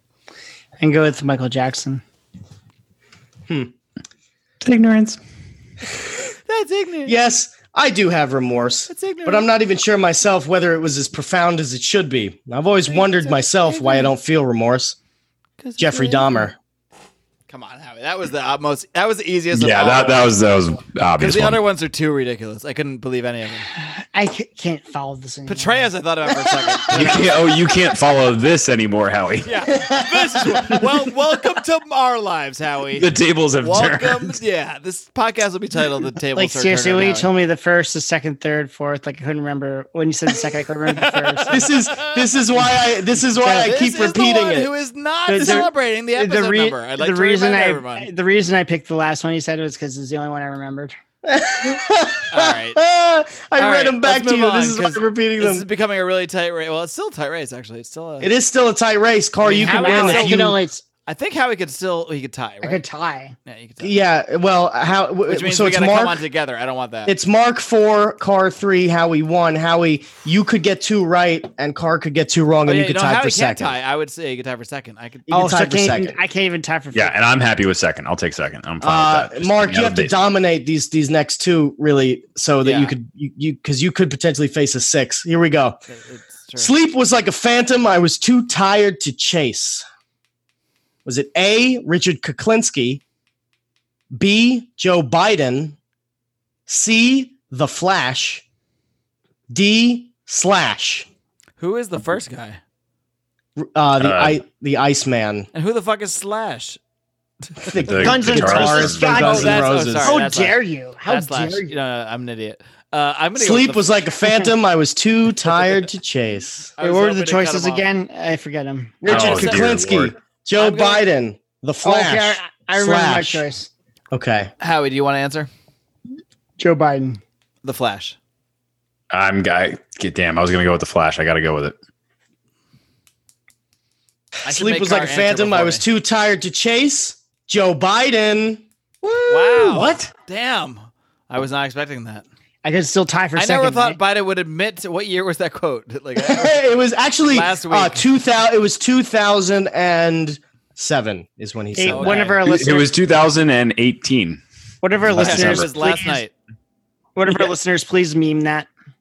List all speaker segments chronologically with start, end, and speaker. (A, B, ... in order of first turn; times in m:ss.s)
0:00.8-0:02.0 A
0:04.6-0:05.2 B
0:06.5-0:07.2 C
0:07.0-0:15.0 D
0:08.9-0:09.5 C
0:12.9-0:14.1 C
0:15.6-0:16.5 C
0:15.8-0:16.6 D
0:17.5-0:20.3 C
0:19.5-0:21.6 B
0:21.2-0:23.7 C
0:23.8-0:25.8 A
0:25.4-0:27.3 C
0:26.9-0:29.5 B
0:29.4-0:33.1 C
0:29.8-0:30.8 D
0:33.0-0:34.4 B
0:33.6-0:37.3 C
0:36.3-0:41.6 A
0:41.0-0:42.4 C
0:41.5-0:44.7 D
0:43.4-0:48.1 C
0:45.3-0:51.0 A
0:45.4-0:45.7 D
0:51.2-0:55.6 D
0:52.3-0:52.8 C
0:53.6-0:58.4 C
0:58.2-1:00.6 D
0:59.4-1:00.4 C
0:59.5-1:00.8 A
1:01.0-1:02.8 C
1:02.6-1:03.4 A
1:03.4-1:03.9 C
1:03.8-1:06.2 D
1:05.3-1:07.1 C
1:07.0-1:13.8 D
1:12.6-1:15.6 C
1:15.3-1:17.1 A
1:15.3-1:16.2 D
1:16.9-1:20.1 B
1:18.8-1:25.8 D
1:22.6-1:22.9 C
1:25.9-1:26.7 C
1:26.6-1:29.8 D
1:31.0-1:33.0 D
1:34.1-1:35.8 D
1:36.7-1:38.4 D
1:39.5-1:41.1 D
1:41.6-1:42.6 C
1:43.6-1:45.5 D
1:44.0-1:44.4 B
1:45.5-1:46.8 C
1:47.6-1:50.2 D
1:47.8-1:49.0 B
1:48.0-1:51.7 A
1:49.0-1:54.0 C
1:53.4-1:56.7 D
1:54.2-1:54.5 A
1:56.8-1:57.9 C
1:56.8-1:59.0 A
1:59.0-2:03.5 D
1:59.0-2:00.1 B
1:59.1-1:59.7 C
2:00.6-2:01.0 C
2:01.8-2:03.7 A
2:04.1-2:04.5 D
2:04.6-2:05.5 C
2:06.6-2:07.2 A
2:07.6-2:08.2 C
2:09.1-2:11.7 B
2:14.4-2:20.0 D
2:14.4-2:15.8 C
2:19.3-2:22.2 C
2:19.7-2:20.1 B
2:22.6-2:24.0 A
2:23.4-2:26.6 C
2:26.2-2:32.3 D
2:27.3-2:28.0 C
2:31.8-2:33.0 A
2:31.8-2:32.4 C
2:32.4-2:34.4 B
2:34.8-2:36.2 A
2:35.0-2:35.7 B
2:35.2-2:36.3 C
2:37.2-2:38.7 A